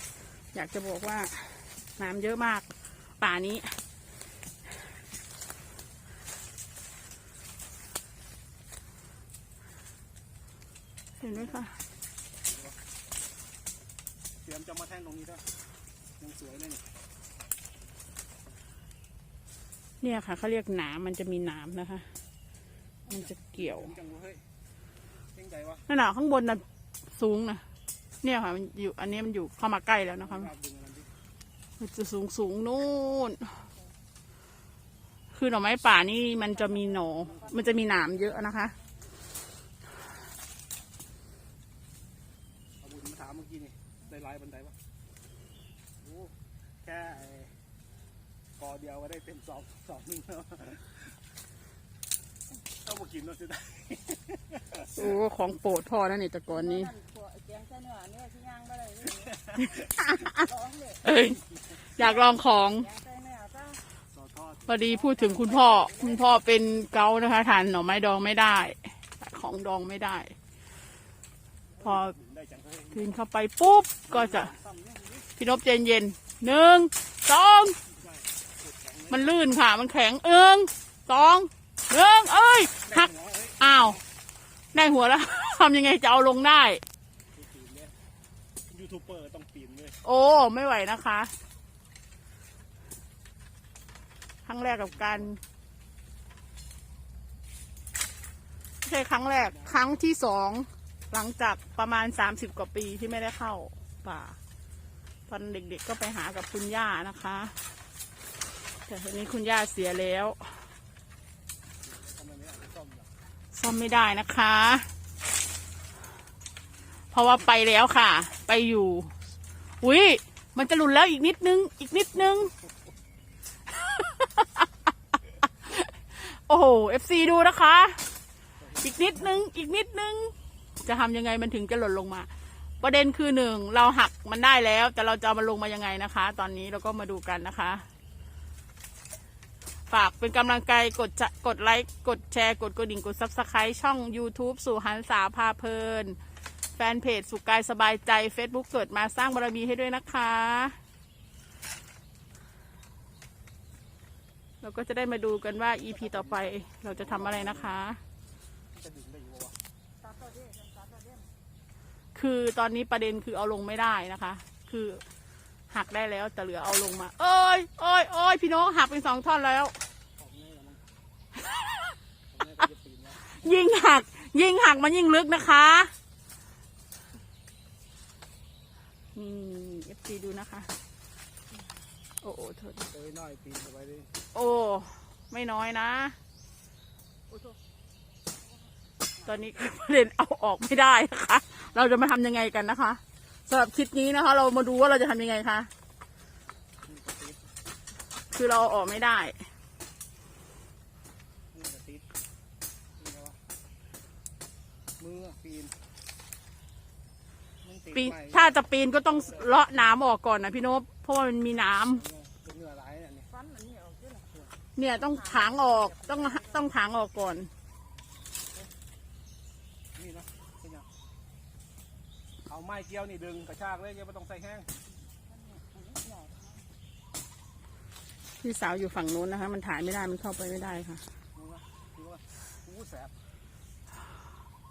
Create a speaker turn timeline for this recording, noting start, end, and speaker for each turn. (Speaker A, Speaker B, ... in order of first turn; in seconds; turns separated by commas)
Speaker A: 0.5-3.8, Speaker A: 11.2-11.8, Speaker B: 11.3-11.6, Speaker B: 12.5-12.8, Speaker B: 14.4-15.4, Speaker B: 16.2-16.9, Speaker A: 20.0-22.1, Speaker B: 23.1-24.4, Speaker A: 23.1-23.9, Speaker B: 25.3-25.9, Speaker A: 25.9-27.6, Speaker A: 28.2-30.5, Speaker B: 30.2-31.1, Speaker A: 31.8-33.6, Speaker A: 35.3-38.8, Speaker C: 36.5-38.1, Speaker B: 42.8-44.8, Speaker B: 46.0-47.5, Speaker B: 48.6-51.0, Speaker B: 52.8-54.9, Speaker A: 54.9-56.9, Speaker C: 56.5-59.4, Speaker B: 59.4-59.7, Speaker A: 60.0-60.3, Speaker C: 60.2-61.0, Speaker A: 61.0-62.9, Speaker C: 62.5-63.8, Speaker B: 64.1-64.8, Speaker A: 64.7-70.3, Speaker C: 64.9-66.3, Speaker B: 71.8-73.1, Speaker A: 71.8-72.1, Speaker A: 72.9-74.5, Speaker B: 74.1-75.3, Speaker A: 75.4-77.8, Speaker B: 77.9-79.3, Speaker A: 79.1-84.0, Speaker B: 82.8-84.0, Speaker A: 84.7-86.8, Speaker B: 87.3-87.9, Speaker B: 88.7-90.0, Speaker A: 90.0-91.3, Speaker A: 94.5-95.4, Speaker A: 98.8-104.4, Speaker B: 99.5-99.7, Speaker A: 105.3-107.6, Speaker A: 108.9-110.7, Speaker B: 111.8-113.1, Speaker A: 113.5-114.9, Speaker A: 117.1-119.1, Speaker A: 119.8-122.5, Speaker A: 123.7-124.7, Speaker A: 125.6-128.1, Speaker B: 128.7-129.1, Speaker A: 128.8-137.9, Speaker A: 139.9-146.2, Speaker A: 146.8-150.8, Speaker A: 154.6-158.0, Speaker B: 155.8-157.8, Speaker B: 158.7-159.6, Speaker C: 160.0-161.3, Speaker A: 162.1-165.0, Speaker A: 165.7-169.8, Speaker B: 170.2-170.8, Speaker B: 172.3-173.2, Speaker A: 173.2-175.9, Speaker A: 179.1-180.7, Speaker A: 182.2-182.9, Speaker B: 182.9-184.1, Speaker A: 184.3-186.2, Speaker C: 187.3-187.6, Speaker C: 189.2-189.4, Speaker A: 189.2-195.7, Speaker B: 196.8-197.4, Speaker A: 198.3-199.4, Speaker B: 201.5-202.1, Speaker B: 203.0-203.4, Speaker B: 205.0-205.7, Speaker B: 207.6-208.5, Speaker A: 207.9-212.0, Speaker B: 209.1-209.8, Speaker B: 211.9-213.3, Speaker C: 213.3-216.7, Speaker A: 214.8-217.5, Speaker B: 219.9-220.9, Speaker B: 222.4-224.7, Speaker C: 225.2-226.7, Speaker A: 228.4-231.0, Speaker B: 231.3-233.1